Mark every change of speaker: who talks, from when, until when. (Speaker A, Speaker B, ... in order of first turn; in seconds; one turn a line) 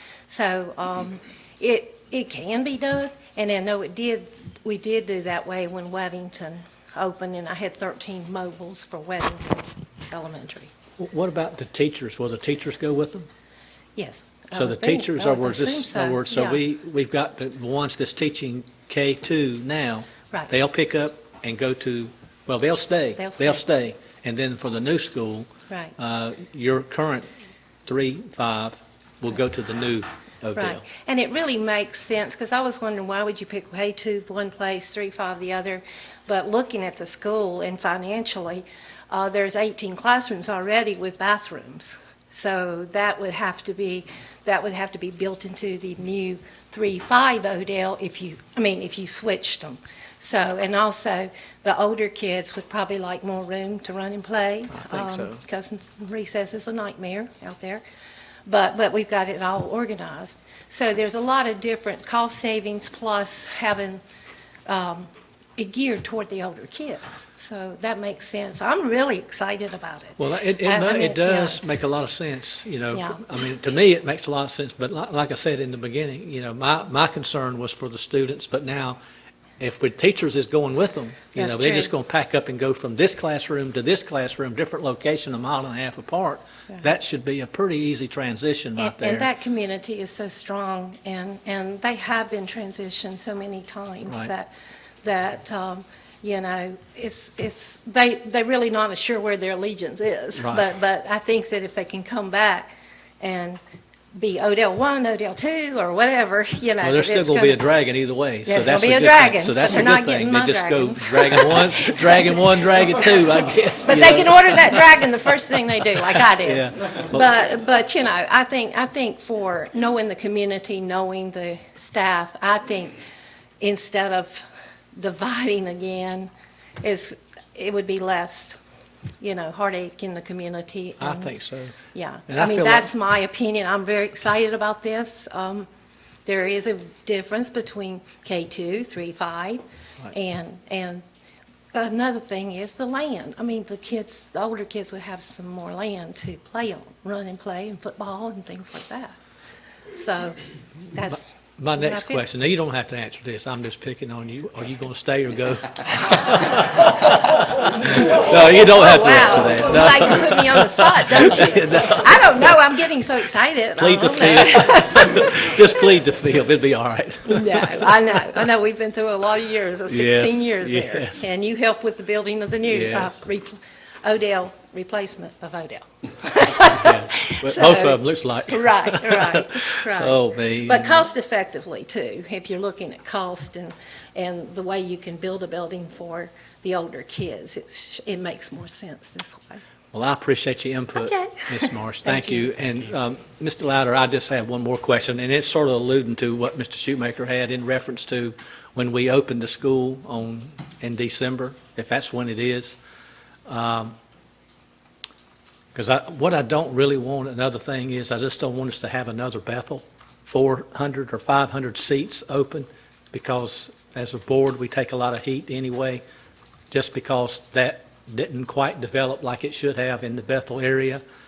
Speaker A: 0.3-10.7
Speaker B: 11.0-13.3
Speaker A: 13.9-16.6
Speaker B: 14.5-27.3
Speaker A: 23.2-23.6
Speaker A: 25.7-25.9
Speaker B: 27.9-30.8
Speaker A: 30.5-57.8
Speaker B: 54.8-55.4
Speaker A: 58.5-64.0
Speaker A: 64.7-71.6
Speaker B: 70.2-79.0
Speaker A: 72.9-73.2
Speaker B: 79.6-89.3
Speaker A: 81.3-81.9
Speaker A: 88.8-94.5
Speaker A: 95.0-103.6
Speaker B: 100.4-100.7
Speaker A: 104.1-107.6
Speaker B: 106.8-114.8
Speaker A: 108.5-112.9
Speaker A: 113.8-123.0
Speaker B: 116.4-117.3
Speaker A: 123.6-126.3
Speaker A: 126.8-128.6
Speaker A: 129.2-131.3
Speaker B: 131.0-131.7
Speaker A: 131.9-135.7
Speaker B: 132.3-132.9
Speaker A: 136.2-141.0
Speaker A: 141.7-149.2
Speaker A: 149.9-150.4
Speaker A: 150.9-152.2
Speaker B: 151.6-162.6
Speaker A: 158.6-165.3
Speaker B: 163.8-168.4
Speaker A: 167.3-189.6
Speaker B: 169.9-171.2
Speaker B: 172.7-173.2
Speaker B: 176.6-181.1
Speaker B: 189.9-202.8
Speaker A: 190.9-192.5
Speaker B: 203.5-203.9
Speaker B: 205.7-216.0
Speaker B: 216.7-221.0